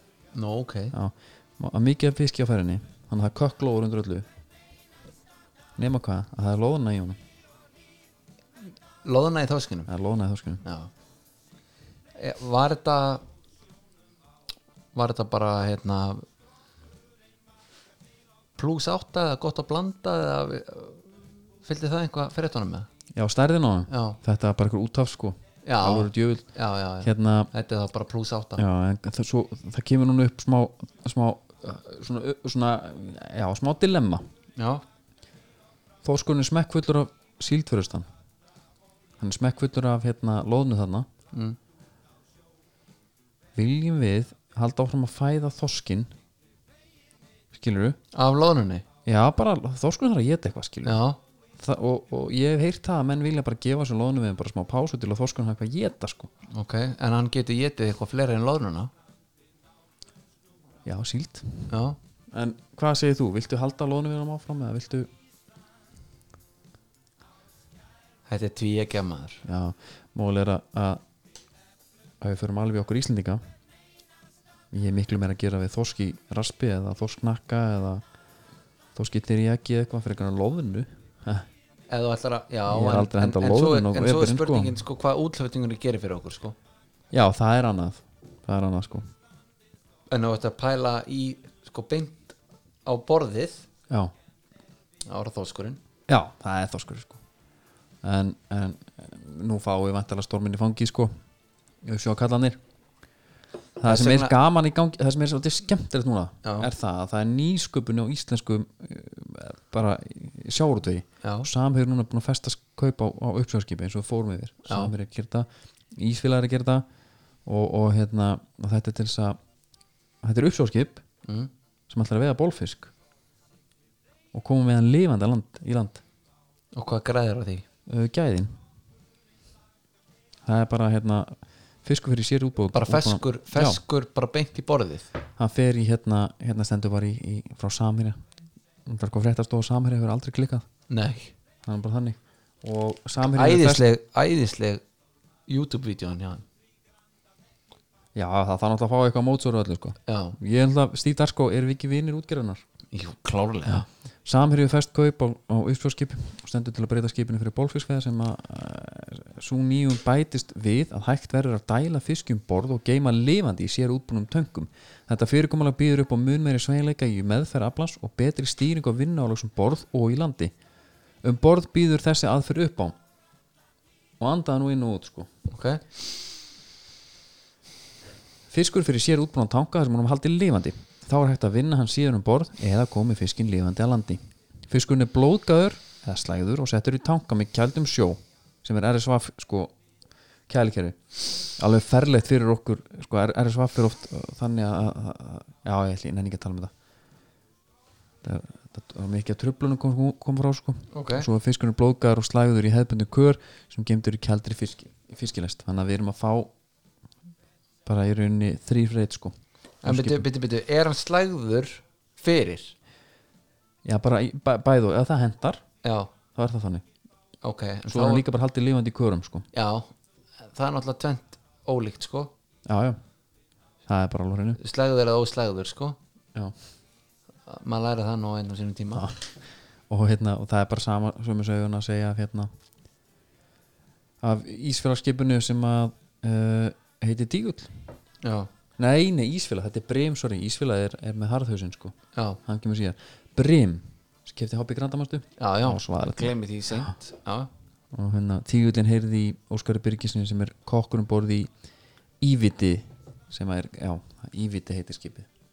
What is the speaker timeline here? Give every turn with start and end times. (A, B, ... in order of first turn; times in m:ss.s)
0:00.3-0:00.9 A
0:00.9-0:04.3 B
0:05.8-0:07.2 B
0:09.0-0:09.9 A
0:09.9-0:10.6 B
0:10.6-0:10.9 A
0:12.1-0:13.2 A
0:14.9-0:16.2 A
0:18.6-0:21.1 A
0:21.6-0:22.9 A
0:23.1-0:26.5 B
0:23.9-0:24.2 A
0:25.6-0:28.6 A
0:27.0-0:27.5 B
0:28.6-0:34.2 B
0:34.6-0:34.8 A
0:36.0-0:38.1 B
0:39.2-0:41.1 B
0:41.3-0:41.6 A
0:43.6-0:46.1 B
0:47.5-0:48.0 B
0:48.1-0:48.8 A
0:49.0-0:51.0 B
0:50.8-0:51.2 A
0:51.6-0:56.3 B
0:56.5-0:58.9 A
1:00.8-1:01.7 B
1:01.7-1:02.0 A
1:02.3-1:05.1 B
1:08.3-1:09.4 A
1:09.4-1:11.0 B
1:12.2-1:13.4 B
1:14.7-1:18.0 B
1:18.9-1:21.5 B
1:21.9-1:26.6 A
1:22.7-1:24.7 B
1:27.1-1:29.1 B
1:30.1-1:33.7 A
1:35.1-1:35.8 A
1:36.1-1:37.2 B
1:38.0-1:41.1 B
1:41.8-1:42.6 B
1:43.8-1:56.8 B
1:43.8-1:44.3 A
1:46.4-1:46.7 A
1:51.2-1:51.5 A
1:54.7-1:54.9 A
1:57.4-1:59.4 B
2:00.2-2:01.0 B
2:01.2-2:01.5 A
2:01.9-2:02.9 B
2:04.3-2:06.0 B
2:06.7-2:07.6 A
2:07.9-2:08.6 B
2:10.4-2:13.8 B
2:12.7-2:15.1 A
2:15.4-2:18.2 B
2:18.8-2:20.6 B
2:20.9-2:21.3 A
2:21.6-2:23.8 B
2:23.3-2:24.8 A
2:25.5-2:26.4 A
2:28.1-2:32.6 B
2:30.1-2:30.4 A
2:32.9-2:33.8 A
2:33.7-2:50.5 B
2:51.2-2:53.0 B
2:54.2-2:55.3 B
2:55.5-2:55.8 A
2:58.5-3:09.7 B
3:10.5-3:16.7 B
3:18.2-3:26.5 B
3:20.9-3:21.3 A
3:27.8-3:30.2 B
3:29.8-3:32.8 A
3:33.8-3:35.6 B
3:35.8-3:36.1 A
3:36.4-3:36.8 B
3:37.4-3:38.2 A
3:37.9-3:39.5 B
3:39.5-3:39.9 A
3:40.4-3:42.3 A
3:42.6-3:43.0 B
3:43.9-3:44.6 B
3:44.6-3:46.0 A
3:47.4-3:49.1 A
3:48.9-3:49.3 B
3:49.9-3:52.5 B
3:54.2-3:57.8 B
3:58.2-3:58.5 A
3:58.8-4:06.9 B
4:02.1-4:02.4 A
4:05.4-4:07.5 A
4:07.9-4:11.5 B
4:12.2-4:15.3 B